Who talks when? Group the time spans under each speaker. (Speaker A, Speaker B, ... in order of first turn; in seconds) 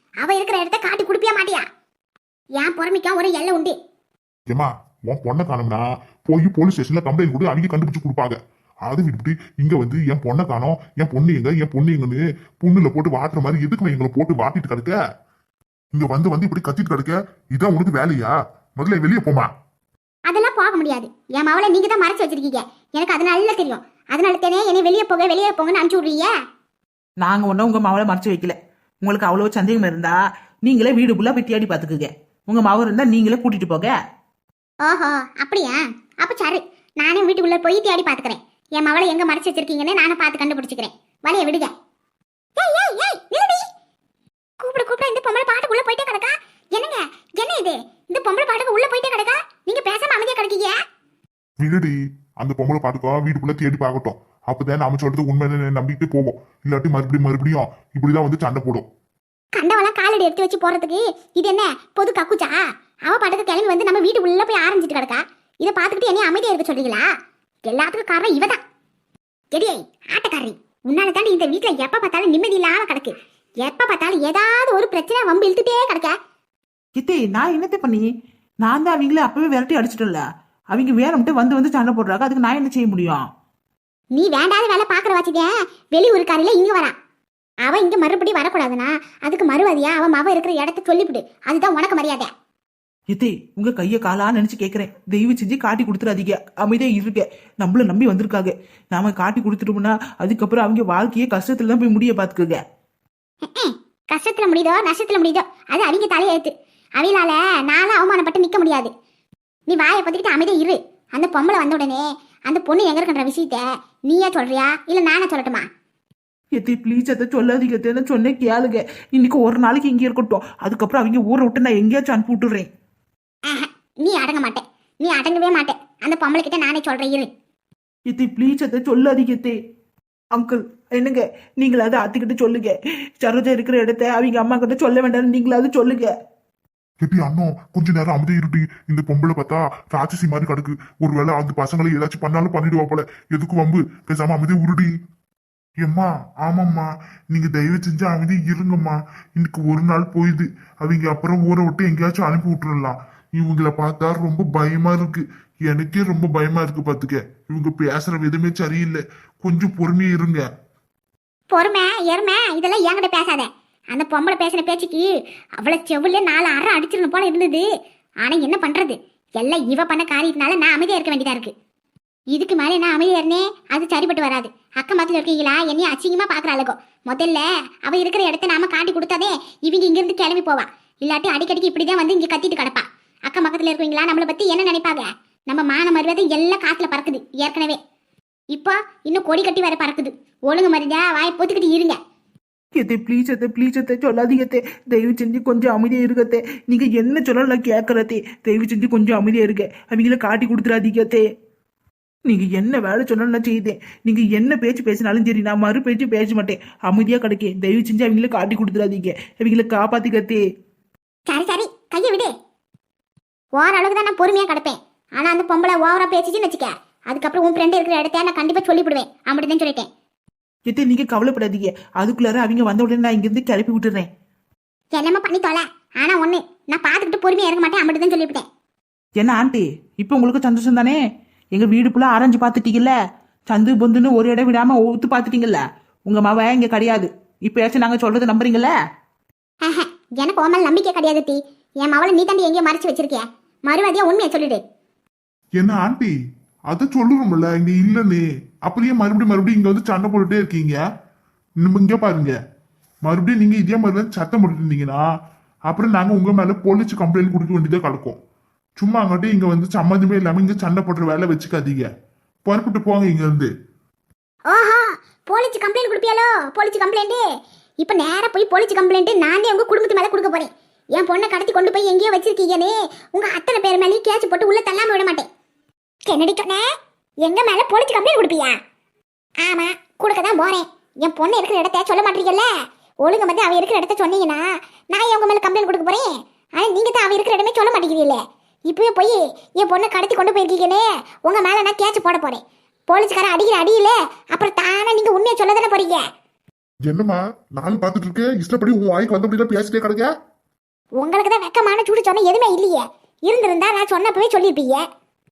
Speaker A: 0.2-1.6, 2.6-3.7, 20.3-26.3, 34.8-41.7, 42.6-43.6, 44.6-50.7, 59.5-67.0, 67.6-68.6, 69.5-76.1, 84.1-86.9, 87.6-92.3, 103.4-108.9, 109.7-115.7, 123.5-127.3, 161.5-167.6, 168.2-171.5, 172.3-187.8, 188.5-192.0, 211.3-212.3, 213.6-219.9, 224.9-228.4, 239.6-244.6, 264.5-267.2, 267.8-275.2, 276.1-276.6, 277.2-278.5, 279.4-282.5, 283.0-296.0, 301.0-304.8
Speaker B: 4.5-15.0, 15.9-19.5, 51.6-58.9, 137.0-144.9, 145.8-160.4, 245.6-246.1, 246.7-250.8, 251.6-252.3, 253.0-255.0, 255.7-258.2, 258.8-261.9, 262.4-263.5, 296.8-300.1
Speaker C: 27.2-33.9, 77.0-78.0, 78.6-83.2, 93.1-102.6, 116.6-122.7, 128.1-129.5, 130.3-136.1, 192.7-201.2, 202.3-210.4, 220.7-224.1, 229.2-231.0, 231.6-232.9, 233.5-238.7